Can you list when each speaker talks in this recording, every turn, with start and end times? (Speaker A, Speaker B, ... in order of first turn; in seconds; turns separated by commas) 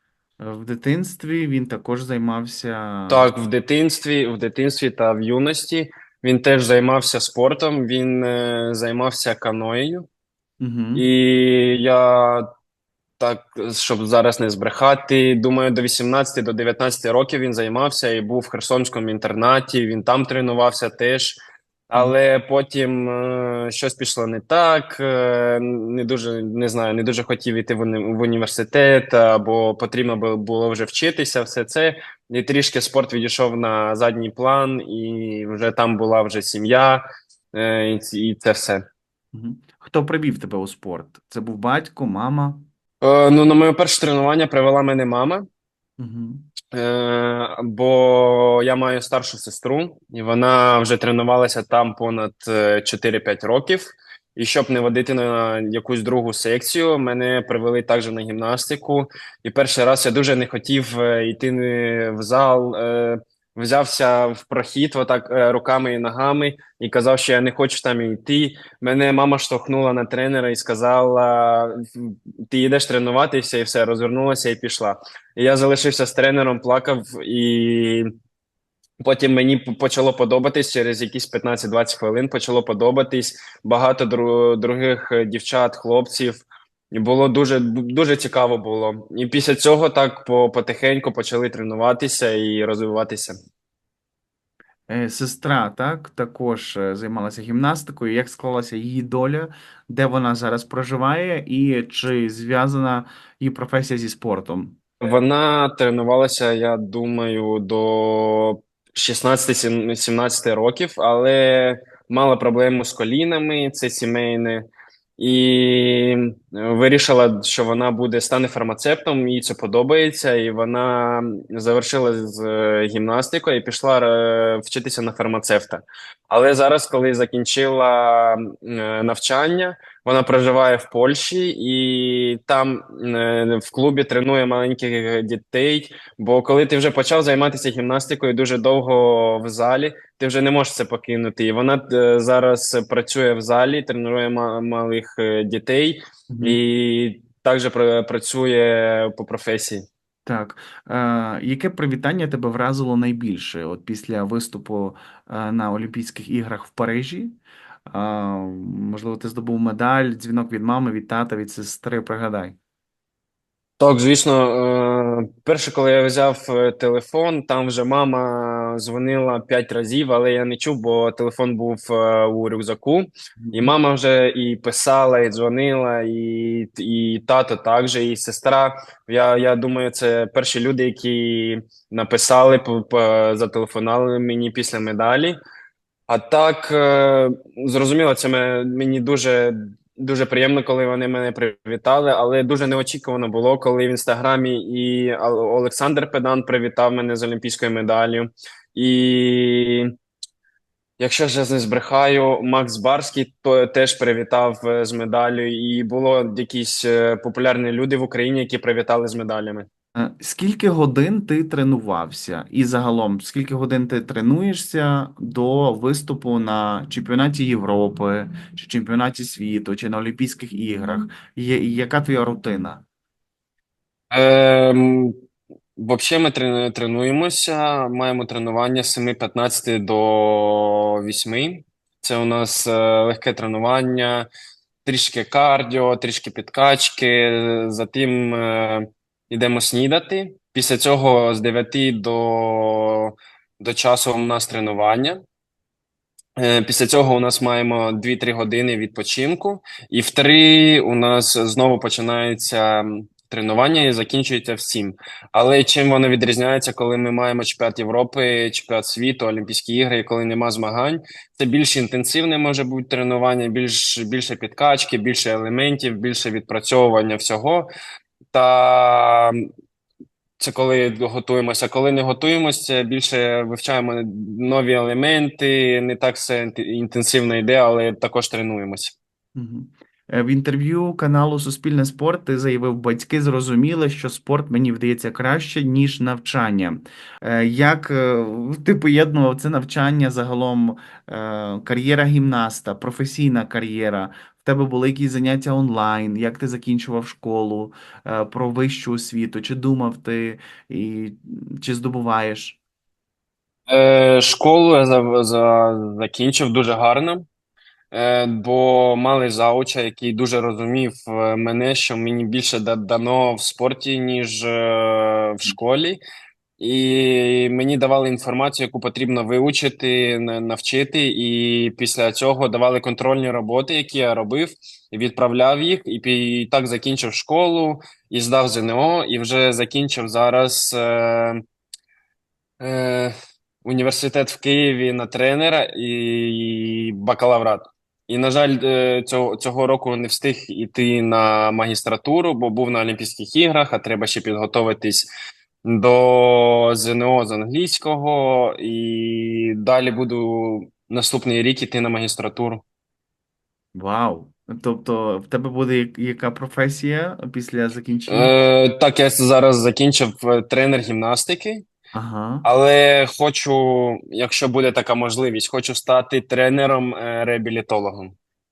Speaker A: 0.4-3.3, Speaker B: 3.1-10.1, Speaker A: 10.6-11.1, Speaker B: 10.9-12.4, Speaker B: 13.2-21.4, Speaker B: 21.9-37.0, Speaker B: 37.5-38.8, Speaker A: 39.3-42.6, Speaker B: 43.0-45.5, Speaker A: 46.0-46.5, Speaker B: 46.7-78.1, Speaker B: 79.0-93.4, Speaker A: 94.9-104.8, Speaker B: 105.0-114.7, Speaker B: 115.2-149.8, Speaker A: 146.3-146.6, Speaker A: 150.3-157.4, Speaker A: 157.9-162.6, Speaker B: 163.8-185.4, Speaker A: 173.4-173.7, Speaker B: 186.1-199.9, Speaker B: 201.0-209.7, Speaker A: 209.9-222.8, Speaker B: 224.1-225.1, Speaker B: 225.8-234.3, Speaker B: 234.8-245.2, Speaker B: 246.4-267.7, Speaker B: 268.3-269.4, Speaker B: 270.4-278.9, Speaker A: 279.4-302.6, Speaker B: 303.7-307.3, Speaker B: 307.9-316.0, Speaker B: 316.6-331.4, Speaker B: 332.6-333.1, Speaker B: 333.6-345.1, Speaker B: 345.6-352.6, Speaker A: 353.8-358.3, Speaker B: 358.1-361.6, Speaker A: 361.9-362.5, Speaker B: 362.4-368.1